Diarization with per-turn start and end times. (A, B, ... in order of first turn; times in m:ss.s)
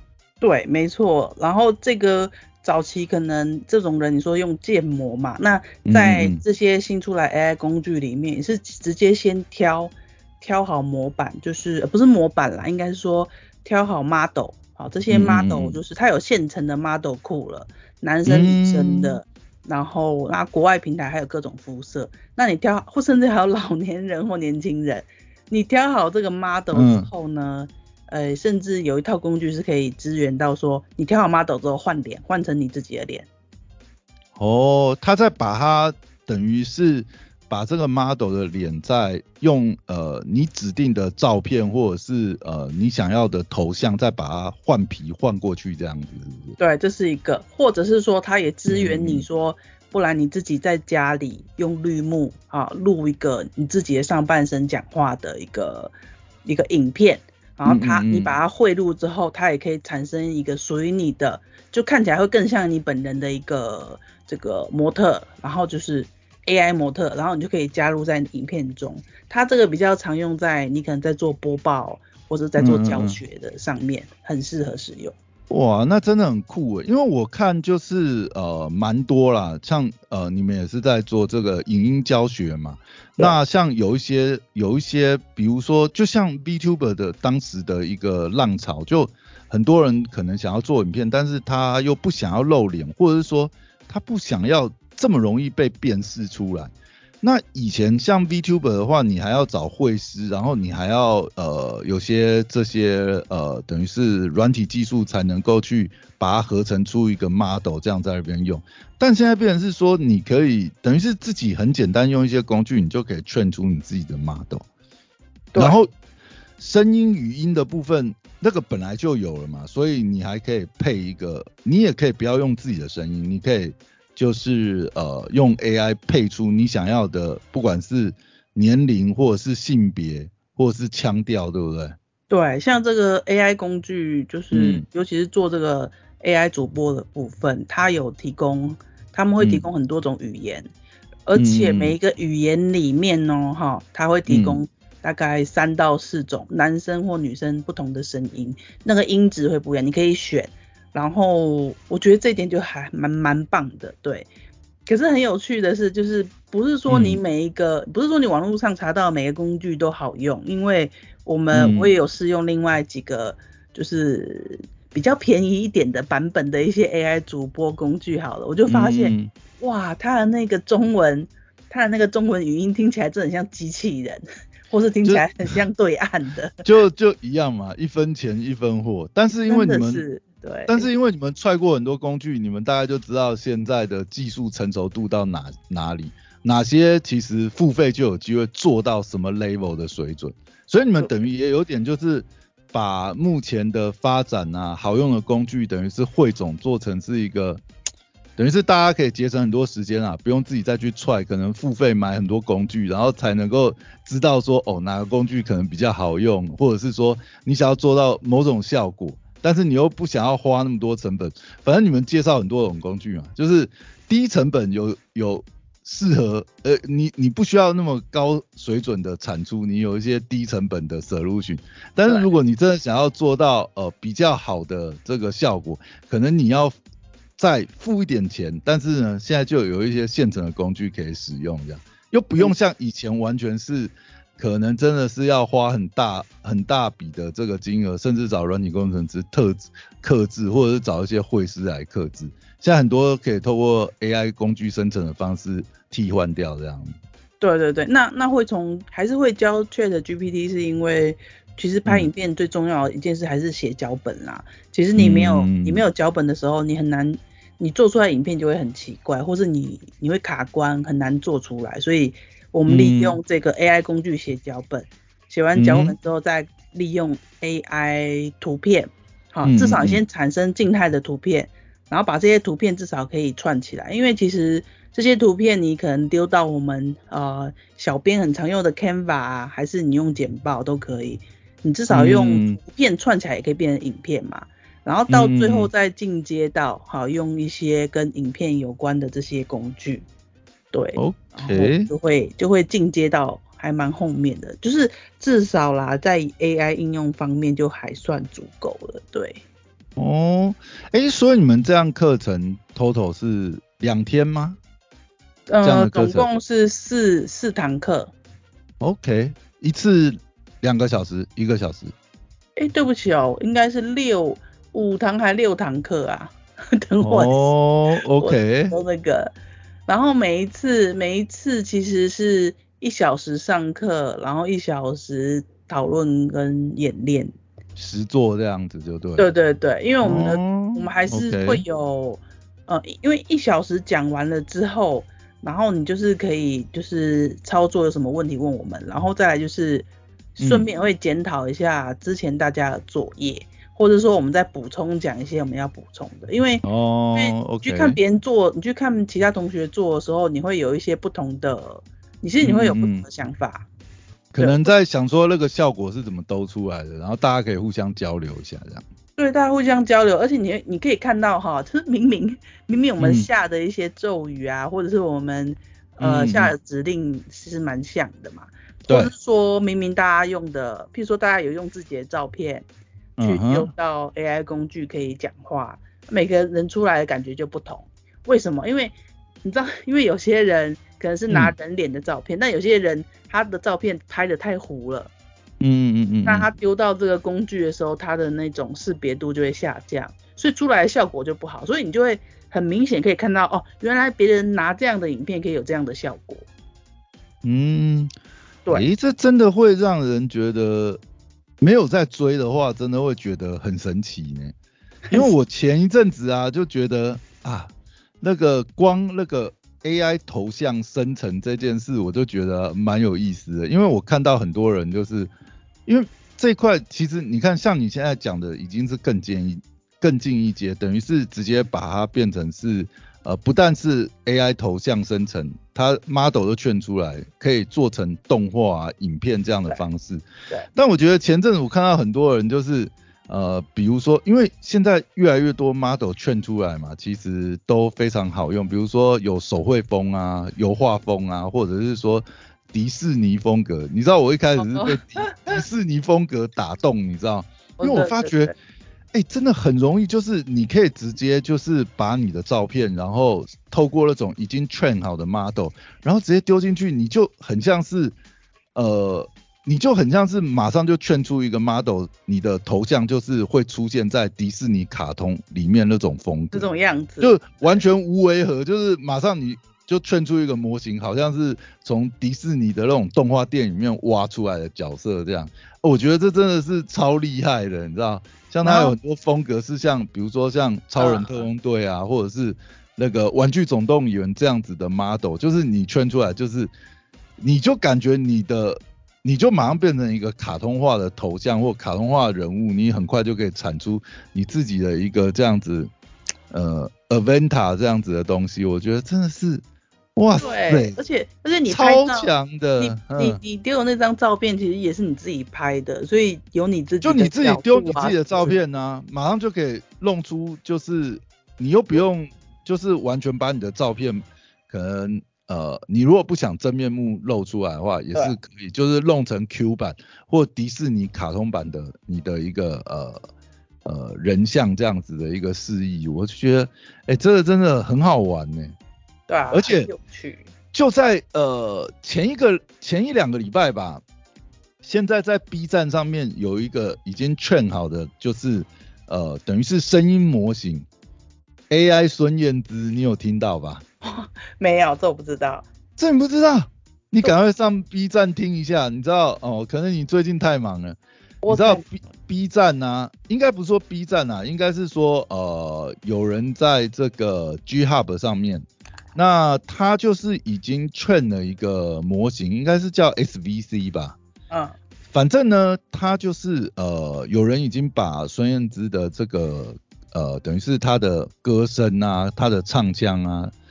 0:00.4-0:33.3 A
0:05.8-0:06.4 B
0:15.1-0:15.8 B
0:18.2-0:19.2 B
0:26.7-0:27.1 B
0:34.4-0:46.6 B
0:46.6-0:55.9 A
0:48.7-0:49.2 B
0:56.4-1:15.2 A
0:57.6-0:58.3 B
1:12.6-1:13.2 B
1:15.5-1:54.6 B
1:55.6-1:55.9 B
1:56.6-2:12.0 B
2:12.3-2:20.7 A
2:14.5-2:14.8 B
2:19.4-2:19.6 B
2:21.3-2:34.3 A
2:21.4-2:22.0 B
2:24.3-2:24.6 B
2:34.9-2:56.6 A
2:36.9-2:37.2 B
2:41.5-2:41.9 B
2:48.7-2:49.3 B
2:55.0-2:55.3 B
2:56.6-3:00.0 B
2:59.5-3:00.9 A
3:00.7-3:17.6 B
3:18.4-3:46.7 B
3:47.4-4:06.9 B
4:07.4-4:50.0 A
4:15.0-4:15.8 B
4:22.7-4:23.2 B
4:25.5-4:25.9 B
4:29.4-4:30.0 B
4:41.9-4:42.6 B
4:45.1-4:45.7 B
4:50.7-4:59.4 A
4:51.0-4:51.9 B
5:00.0-5:04.6 B
5:05.5-5:08.1 A
5:05.6-5:06.3 B
5:08.8-5:11.9 B
5:12.6-5:17.5 A
5:17.0-5:18.8 B
5:18.2-5:19.3 A
5:19.9-5:27.3 A
5:27.8-5:29.3 B
5:29.2-5:53.7 A
5:30.0-5:31.6 B
5:40.4-5:40.6 B
5:46.6-5:48.0 B
5:52.4-5:53.0 B
5:54.3-5:58.8 B
5:54.4-5:54.7 A
5:59.2-6:12.6 A
6:03.0-6:03.3 B
6:06.0-6:06.5 B
6:13.2-6:13.7 B
6:13.2-6:25.1 A
6:25.6-6:26.5 B
6:26.2-6:36.5 A
6:37.4-6:38.1 B
6:38.7-6:41.0 B
6:41.6-6:44.5 B
6:45.1-6:55.3 B
6:55.8-7:28.5 B
7:24.6-7:25.6 A
7:27.8-7:28.5 A
7:29.1-7:38.2 B
7:38.7-7:46.7 B
7:46.5-7:47.8 A
7:47.2-8:06.7 B
7:58.6-7:58.9 A
8:01.0-8:01.4 A
8:07.4-8:15.9 B
8:16.5-8:19.6 B
8:20.2-8:20.9 B
8:20.4-8:28.6 A
8:21.7-8:23.4 B
8:27.0-8:43.2 B
8:43.8-8:48.7 B
8:49.3-8:50.4 A
8:49.5-8:49.9 B
8:50.7-8:54.0 B
8:54.8-9:00.8 B
9:01.7-9:03.8 B
9:04.0-9:05.7 A
9:06.0-9:11.0 B
9:11.4-9:11.8 A
9:11.5-9:24.2 B
9:24.5-9:24.8 A
9:25.1-9:33.5 B